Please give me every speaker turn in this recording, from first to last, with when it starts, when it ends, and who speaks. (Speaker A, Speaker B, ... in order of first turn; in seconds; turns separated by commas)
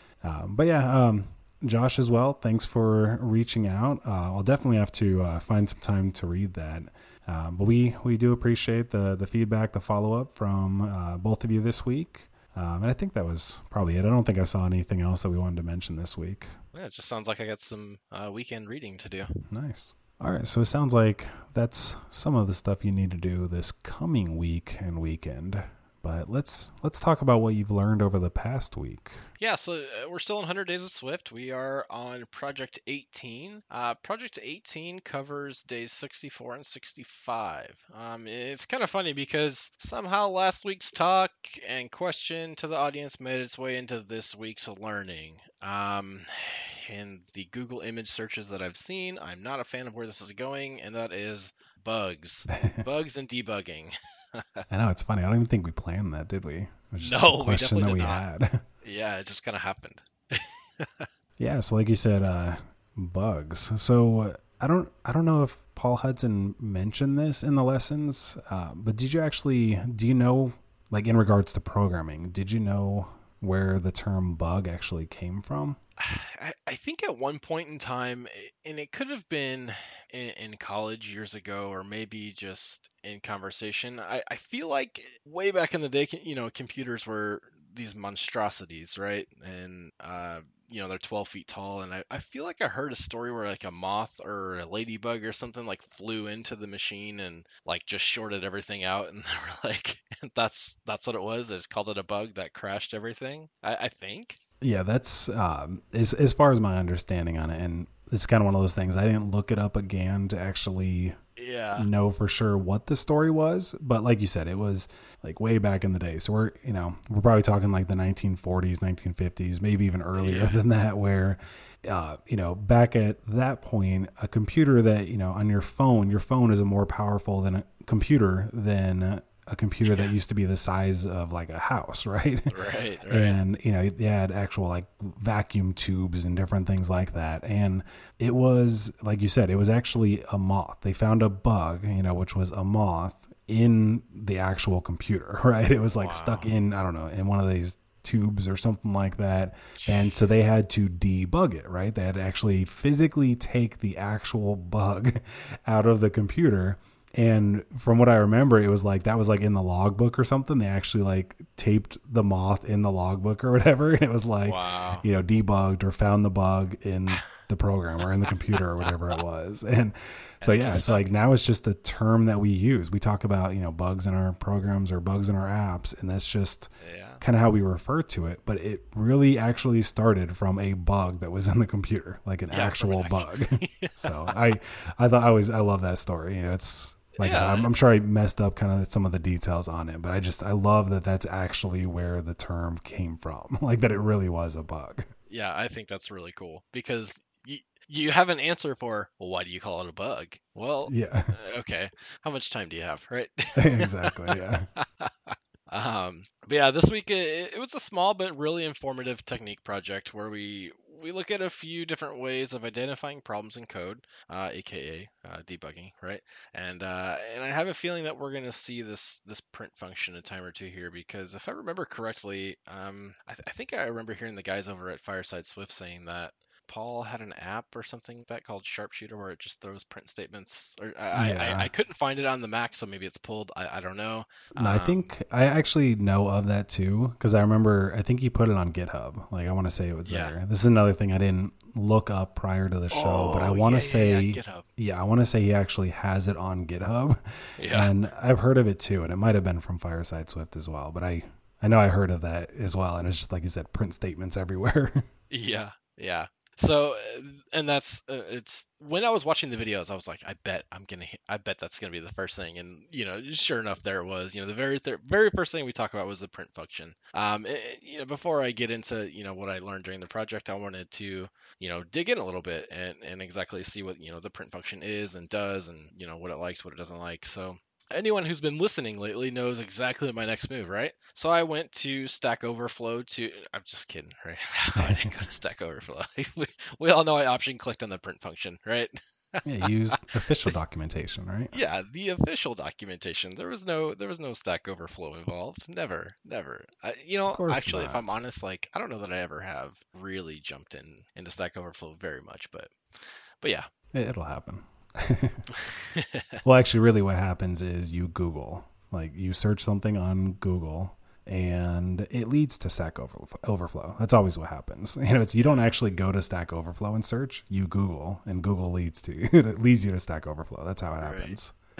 Speaker A: 0.2-16.5, Speaker B: 16.7-19.3, Speaker A: 19.5-29.3, Speaker B: 29.4-54.6, Speaker A: 52.5-52.8, Speaker A: 54.7-58.6, Speaker B: 57.0-58.2, Speaker B: 58.8-61.1, Speaker A: 61.4-75.8, Speaker B: 76.0-104.4, Speaker A: 104.6-111.2, Speaker B: 111.4-111.8, Speaker A: 111.8-132.6, Speaker B: 120.2-120.6, Speaker B: 132.5-133.4, Speaker A: 133.1-195.1, Speaker B: 145.9-146.5, Speaker B: 149.8-150.2, Speaker B: 164.4-165.0, Speaker B: 168.3-168.6, Speaker B: 170.4-171.1, Speaker B: 176.8-177.2, Speaker B: 182.5-184.3, Speaker B: 187.2-187.7, Speaker B: 195.3-235.1, Speaker A: 200.8-201.4, Speaker A: 203.6-204.7, Speaker A: 231.1-231.7, Speaker A: 234.6-255.1, Speaker B: 240.1-240.3, Speaker B: 242.9-244.7, Speaker B: 247.6-247.9, Speaker B: 255.3-289.7, Speaker A: 284.8-285.0, Speaker A: 289.4-291.5, Speaker B: 291.5-303.7, Speaker A: 297.3-298.2, Speaker A: 303.9-305.4, Speaker B: 305.5-306.3, Speaker A: 306.4-321.5, Speaker B: 315.4-315.7, Speaker B: 321.0-321.4